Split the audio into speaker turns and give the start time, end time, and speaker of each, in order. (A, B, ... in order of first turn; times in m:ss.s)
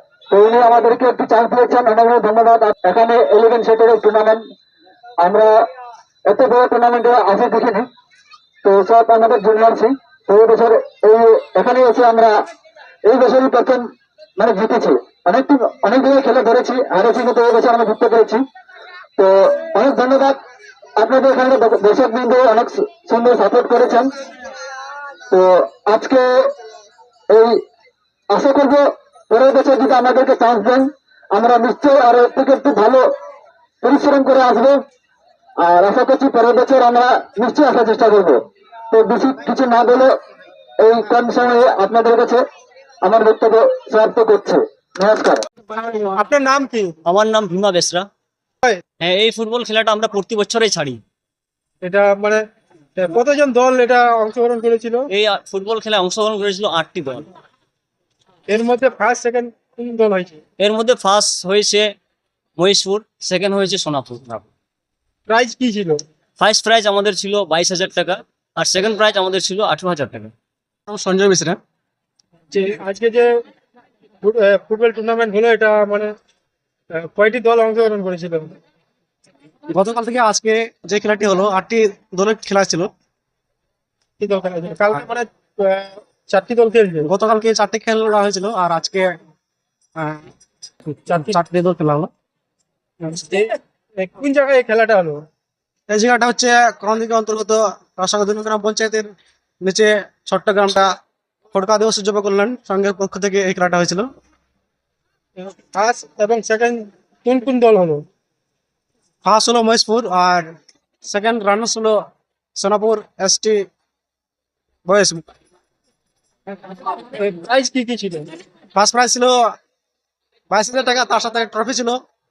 0:00.3-0:04.4 A
0:05.2-0:05.5 A
0:06.3-0:07.9 A
0:08.6-0:12.4 A
0:13.1-0:13.8 A
0:14.4-0:18.4 A
0:19.2-0:20.4 A
0:21.0-0:24.1 A
0:25.3-0:26.5 A
0:27.3-0:27.6 A
0:28.3-0:33.0 A
0:33.8-0:34.8 A
0:35.6-0:38.4 A
0:38.9-0:40.1 A
0:40.8-0:42.4 A
0:43.0-0:45.4 A
0:45.7-0:47.0 B
0:47.1-0:48.1 C
0:49.0-0:51.0 C
0:51.8-0:55.1 B
0:55.1-0:57.3 C
0:58.5-1:00.4 B
1:00.6-1:01.9 C
1:02.6-1:04.4 C
1:05.3-1:06.0 B
1:06.4-1:10.3 C
1:10.9-1:11.6 D
1:12.5-1:13.3 B
1:14.2-1:16.1 B
1:16.9-1:18.6 B
1:19.7-1:22.9 D
1:24.2-1:27.1 B
1:27.0-1:29.1 D
1:30.0-1:30.3 D
1:31.0-1:31.4 B
1:31.3-1:32.1 D
1:33.0-1:35.2 B
1:35.9-1:39.1 D
1:39.6-1:40.9 D
1:41.5-1:44.1 D
1:45.4-1:48.0 B
1:49.2-1:50.5 D
1:51.0-1:52.0 D
1:52.6-1:53.7 D
1:54.9-1:55.2 D
1:56.5-1:58.3 B
1:58.8-1:59.3 D
2:00.5-2:02.0 D